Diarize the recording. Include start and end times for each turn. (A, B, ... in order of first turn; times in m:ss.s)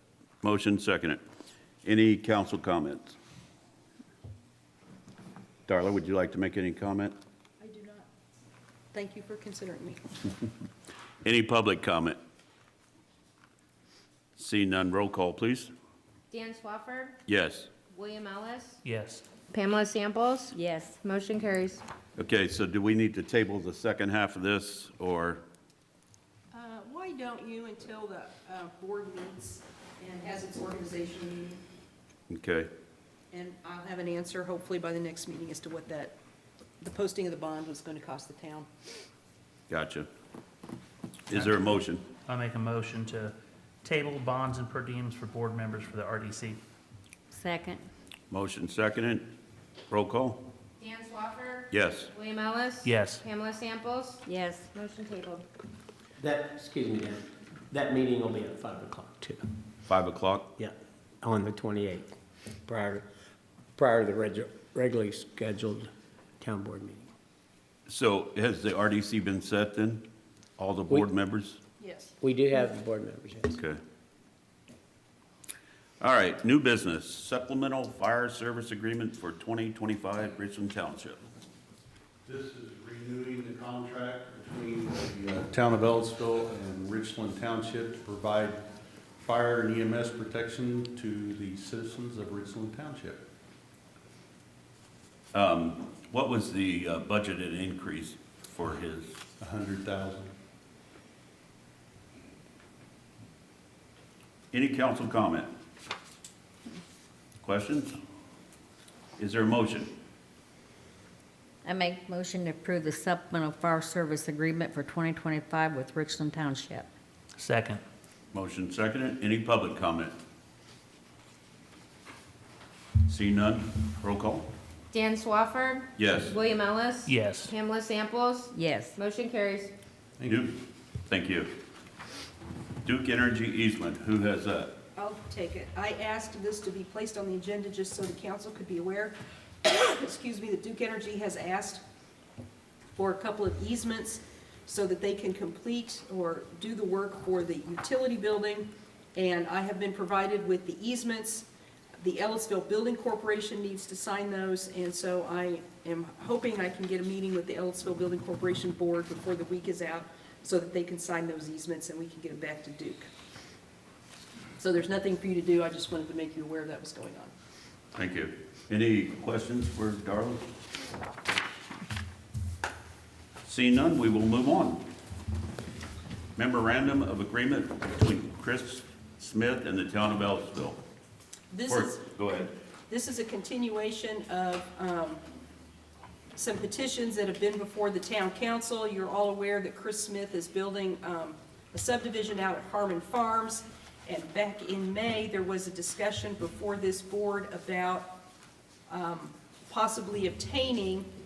0:00.4-0:01.2 A
0:01.8-0:03.2 A
0:05.7-0:07.2 A
0:07.6-0:08.1 B
0:08.9-0:10.0 B
0:11.2-0:12.2 A
0:14.4-0:15.7 A
0:16.3-0:17.2 C
0:17.3-0:17.7 A
0:17.9-0:18.8 C
0:18.8-0:19.2 D
0:19.5-0:21.8 C
0:22.2-0:25.4 A
0:26.5-0:31.6 B
0:32.3-0:32.7 A
0:33.3-0:36.2 B
0:36.8-0:38.7 B
0:39.7-0:40.1 A
0:41.3-0:42.0 A
0:42.3-0:46.6 D
0:47.3-0:47.8 E
0:48.3-0:49.3 A
0:49.9-0:50.4 A
0:50.8-0:55.4 C
0:51.7-0:52.1 A
0:52.8-0:53.2 D
0:54.3-0:54.6 E
0:56.2-0:59.5 F
0:59.9-1:00.5 A
1:00.6-1:02.1 F
1:02.7-1:03.1 F
1:03.8-1:07.1 F
1:07.9-1:11.6 A
1:11.8-1:12.2 B
1:12.2-1:13.6 F
1:16.0-1:21.2 A
1:22.3-1:28.6 G
1:29.2-1:33.2 G
1:35.3-1:39.2 A
1:39.4-1:40.3 G
1:44.5-1:45.5 A
1:47.4-1:48.0 A
1:49.2-1:49.9 A
1:51.6-1:56.9 E
1:57.4-1:57.8 D
1:58.3-2:00.1 A
2:03.1-2:04.5 A
2:04.9-2:09.7 C
2:06.0-2:06.4 A
2:07.1-2:07.5 D
2:08.5-2:09.0 E
2:10.3-2:11.5 A
2:12.8-2:14.8 A
2:15.0-2:21.8 B
2:23.0-2:31.5 B
2:32.0-2:43.1 B
2:44.6-2:47.3 B
2:48.0-2:50.4 A
2:53.4-2:54.8 A
2:56.4-3:00.8 A
3:01.5-3:02.1 B
3:01.7-3:02.5 A
3:02.9-3:05.2 B
3:06.4-3:18.2 B
3:18.9-3:21.1 B